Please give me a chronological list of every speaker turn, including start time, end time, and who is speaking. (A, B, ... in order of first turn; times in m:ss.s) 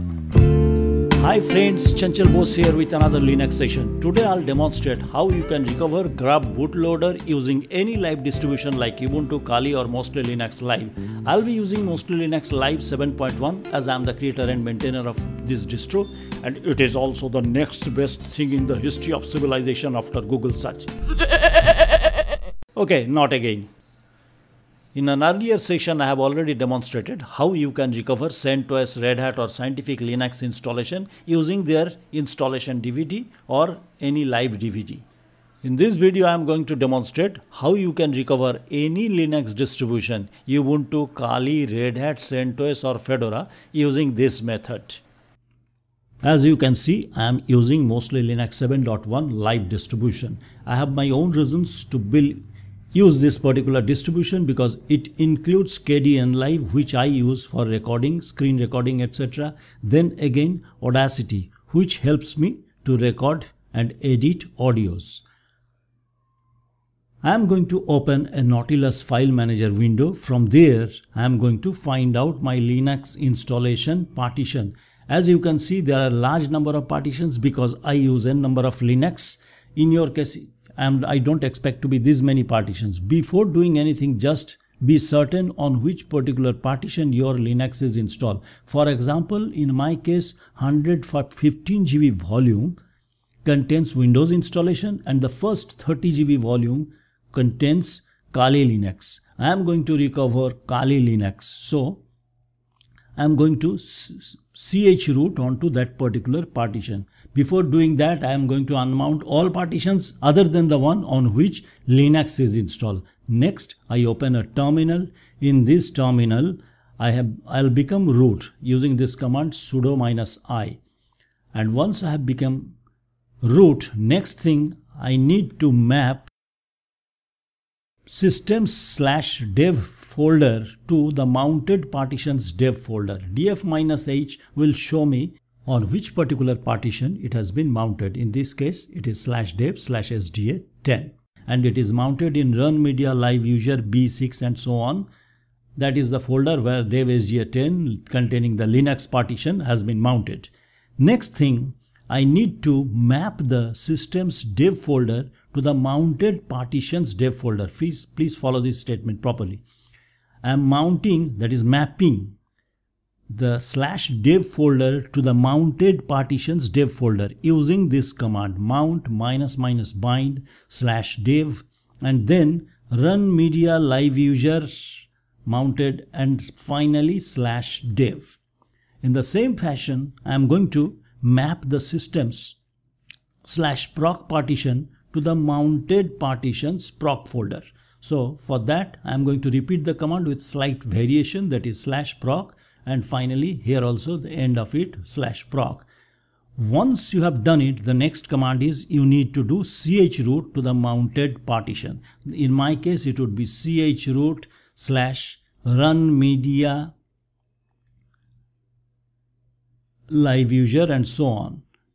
0:01.1-0:20.9 A
0:22.8-0:23.7 A
0:24.9-0:35.1 A
0:35.6-0:45.0 A
0:46.2-0:52.4 A
0:52.9-1:05.2 A
1:07.2-1:32.8 A
1:33.4-1:42.0 A
1:43.2-2:00.8 A
2:01.5-2:02.8 A
2:03.4-2:06.3 A
2:08.1-2:25.1 A
2:25.8-2:39.6 A
2:40.4-2:42.4 A
2:43.3-2:58.4 A
2:59.0-3:02.6 A
3:03.4-3:15.9 A
3:16.6-3:26.9 A
3:30.1-3:31.6 A